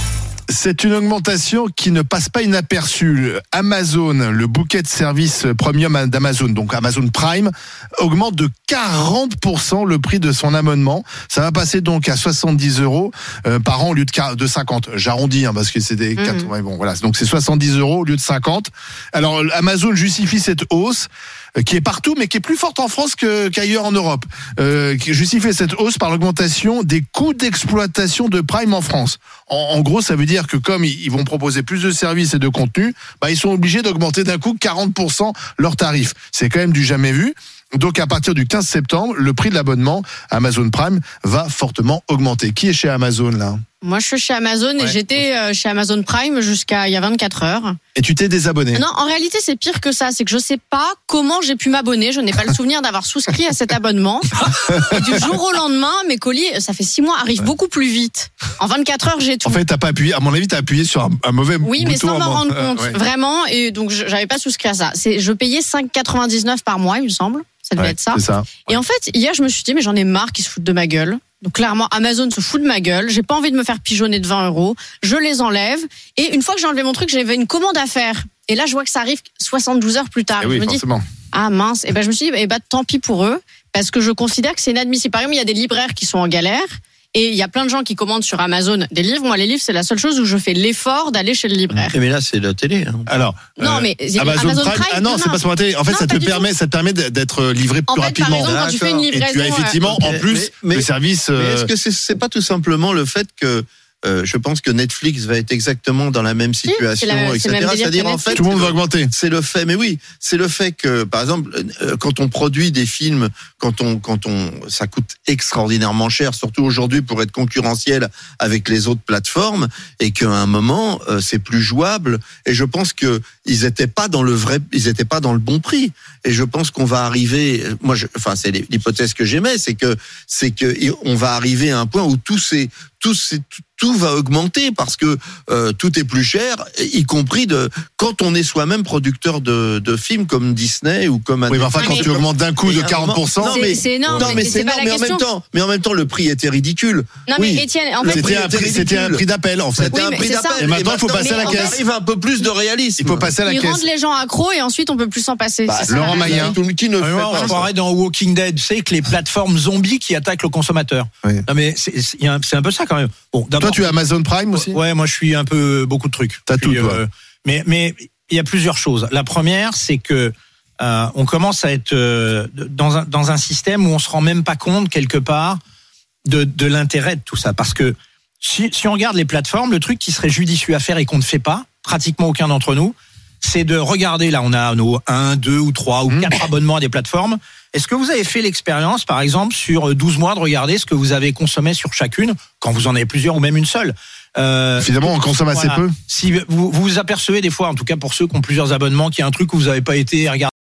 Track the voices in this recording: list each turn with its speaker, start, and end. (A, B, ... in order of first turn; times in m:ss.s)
0:00.5-0:43.6 A
0:16.2-0:16.5 B
0:43.8-0:47.8 B
0:44.8-0:45.2 A
0:48.0-0:48.8 A
0:48.7-0:59.6 B
0:54.8-0:55.3 A
0:59.4-1:03.0 A
1:01.6-1:32.0 B
1:07.8-1:08.8 A
1:20.4-1:21.0 A
1:31.8-1:33.1 C
1:33.1-1:38.6 A
1:33.6-1:36.5 B
1:37.9-1:39.9 B
1:38.4-1:39.1 C
1:39.1-1:41.7 A
1:39.8-2:27.2 C
1:46.6-1:48.4 B
1:48.3-1:49.1 A
2:21.5-2:24.5 A
2:21.8-2:22.1 B
2:23.4-2:25.3 B
2:27.3-2:28.3 B
2:27.4-2:30.0 A
2:28.0-2:29.2 C
2:29.8-2:33.3 C
2:29.9-2:31.8 B
2:30.6-2:31.8 A
2:33.0-2:33.8 A
2:33.4-2:36.5 B
2:35.7-2:37.7 C
2:35.9-2:36.6 A
2:37.0-2:44.0 D
2:43.6-2:44.8 A
2:44.5-2:55.6 D
2:46.5-2:47.0 A
2:56.3-3:20.5 D
3:06.1-3:06.4 A
3:14.8-3:16.0 A